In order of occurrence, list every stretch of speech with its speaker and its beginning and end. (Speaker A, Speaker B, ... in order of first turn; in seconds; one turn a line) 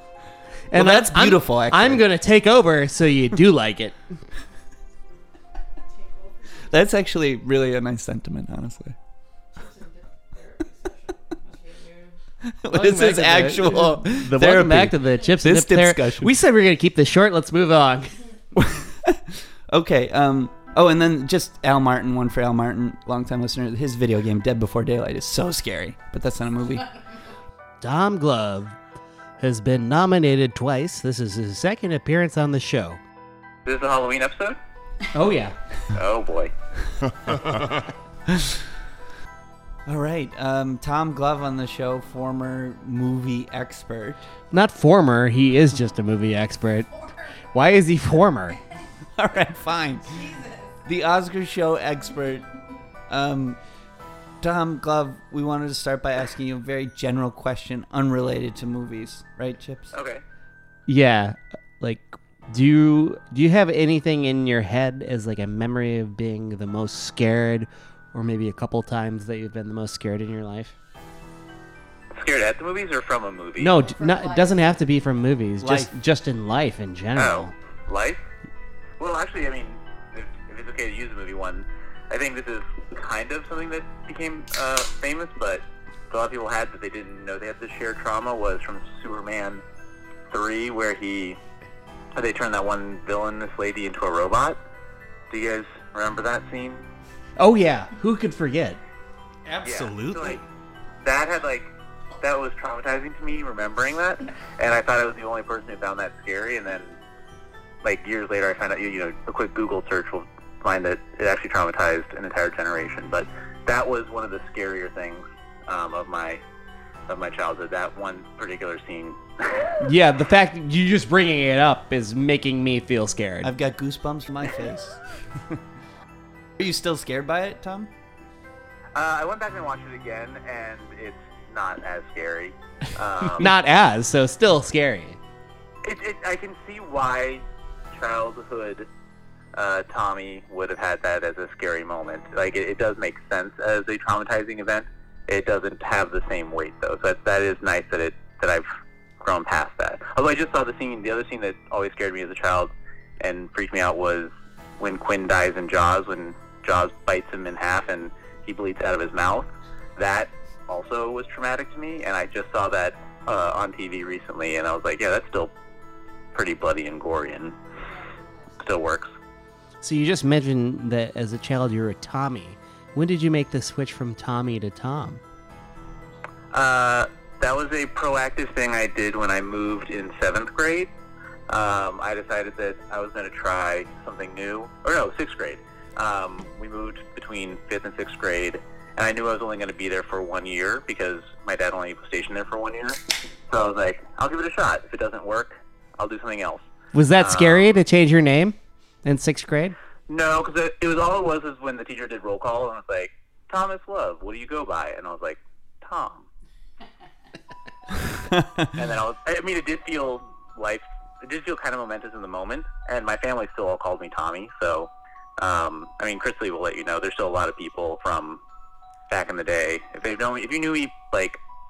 Speaker A: 0.7-4.0
Speaker B: 0.7-2.1
Speaker B: 6.7-9.0
Speaker B: 12.4-16.3
Speaker A: 12.7-18.1
Speaker B: 18.5-26.9
Speaker A: 27.8-28.8
Speaker A: 29.4-33.0
Speaker C: 33.7-34.6
Speaker A: 35.1-35.5
Speaker C: 36.0-36.5
Speaker B: 38.3-38.6
Speaker B: 39.9-44.3
Speaker A: 44.5-48.6
Speaker B: 49.2-50.2
Speaker B: 50.9-52.5
Speaker B: 53.1-53.6
Speaker B: 54.4-59.9
Speaker C: 59.9-60.2
Speaker A: 60.9-70.8
Speaker C: 72.1-73.8
Speaker A: 73.6-77.5
Speaker B: 75.6-75.9
Speaker C: 77.2-78.2
Speaker C: 79.0-89.6
Speaker C: 90.3-91.4
Speaker C: 92.2-94.6
Speaker C: 95.3-96.8
Speaker A: 97.4-98.8
Speaker A: 99.5-100.4
Speaker C: 99.6-100.4
Speaker C: 101.0-107.0
Speaker C: 107.8-116.4
Speaker C: 117.1-119.2
Speaker A: 119.8-123.5
Speaker B: 123.4-125.0
Speaker B: 126.6-127.9
Speaker C: 128.9-133.5
Speaker A: 133.4-135.2
Speaker C: 135.8-138.9
Speaker C: 139.6-148.7
Speaker C: 149.2-165.5
Speaker C: 166.3-167.6
Speaker C: 168.6-169.1
Speaker A: 169.8-175.2
Speaker C: 176.5-180.9
Speaker C: 181.5-193.0
Speaker C: 193.5-196.7
Speaker A: 196.9-199.8
Speaker C: 197.2-197.8
Speaker C: 200.1-206.3
Speaker B: 208.1-208.7
Speaker C: 208.8-218.4
Speaker C: 219.1-221.4